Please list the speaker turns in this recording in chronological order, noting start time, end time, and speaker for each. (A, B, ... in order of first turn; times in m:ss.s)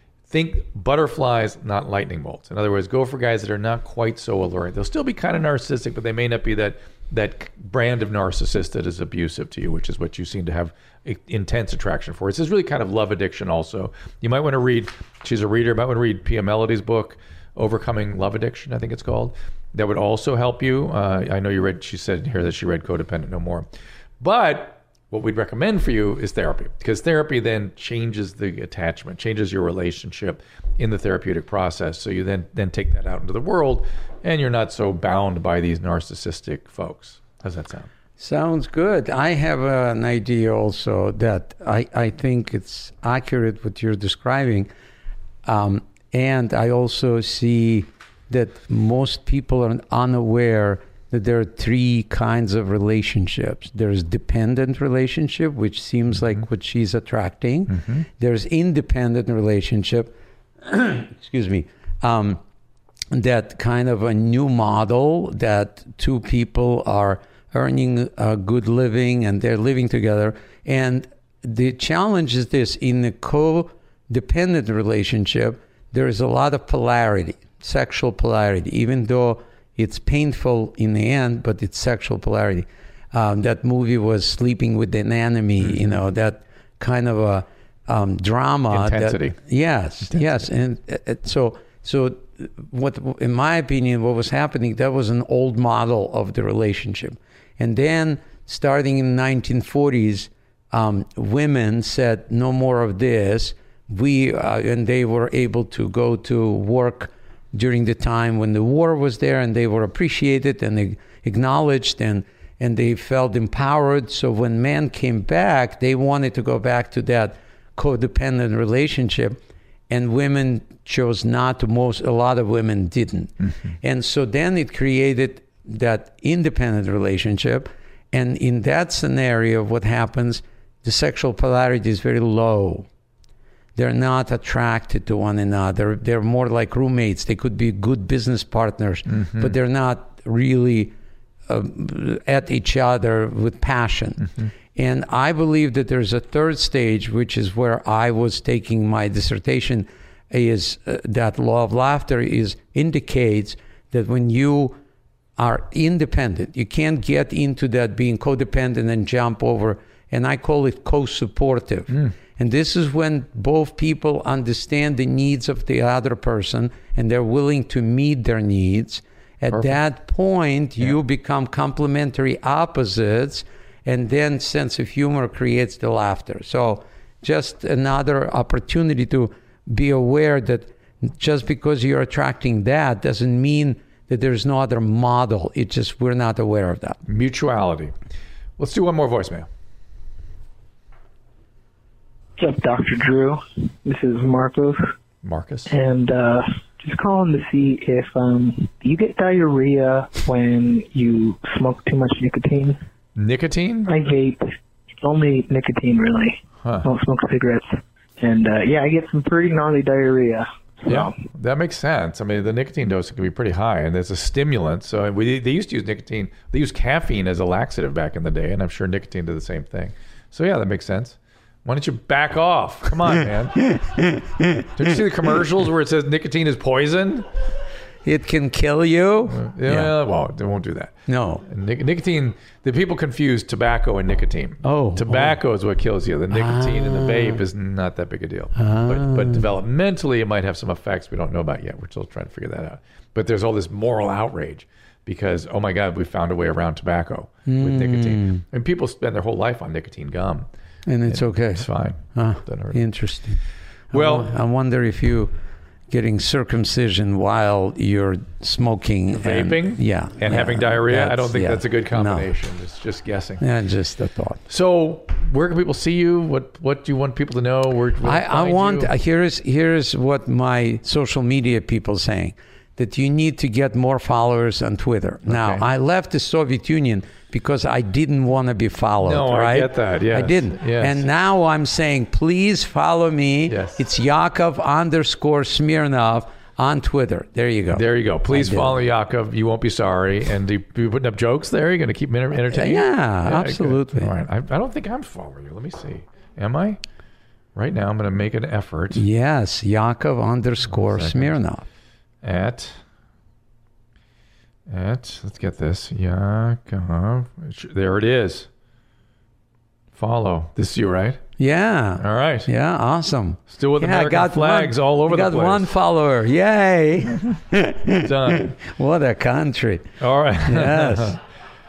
0:00.3-0:23.7 A
0:24.2-0:37.9 A
0:38.2-0:44.7 B
0:45.5-1:02.4 B
0:57.7-0:58.1 A
1:03.1-2:12.9 B
1:25.6-1:26.0 A
1:28.7-1:29.4 A
1:30.1-1:30.4 A
2:13.8-2:20.9 B
2:19.1-2:19.6 A
2:21.5-2:34.8 B
2:35.4-3:07.0 B
2:41.9-2:42.1 A
2:49.5-2:49.8 A
3:07.1-3:07.9 A
3:08.6-3:09.5 A
3:12.4-3:14.9 C
3:15.2-3:15.7 A
3:15.7-3:22.8 C
3:23.2-3:23.9 A
3:23.9-3:24.4 C
3:25.0-3:31.2 C
3:30.8-3:43.7 A
3:43.9-3:44.6 B
3:44.8-3:47.3 A
3:48.0-3:49.9 B
3:49.3-4:10.5 A
3:51.1-3:51.4 B
3:54.6-3:55.4 B
3:56.3-3:57.4 B
3:58.6-3:59.4 B
4:07.5-4:08.4 B
4:10.9-4:15.3 B
4:11.1-4:12.8 A
4:13.9-4:14.3 A
4:15.9-4:22.3 B
4:19.1-4:23.4 A
4:23.4-4:24.4 B
4:24.5-4:28.9 A
4:28.0-4:48.8 B
4:35.3-4:35.6 A
4:39.0-4:41.0 A
4:43.5-4:43.8 A
4:47.7-4:56.8 A
4:52.5-4:54.1 B
4:57.6-4:59.0 A
4:58.9-5:01.7 B
5:00.7-5:01.4 A
5:02.2-5:02.8 A
5:04.7-5:08.5 A
5:09.9-5:11.2 A
5:11.4-5:19.9 B
5:12.0-5:12.5 A
5:13.5-5:15.7 A
5:18.0-5:18.6 A
5:20.0-5:21.2 A
5:20.4-5:21.2 B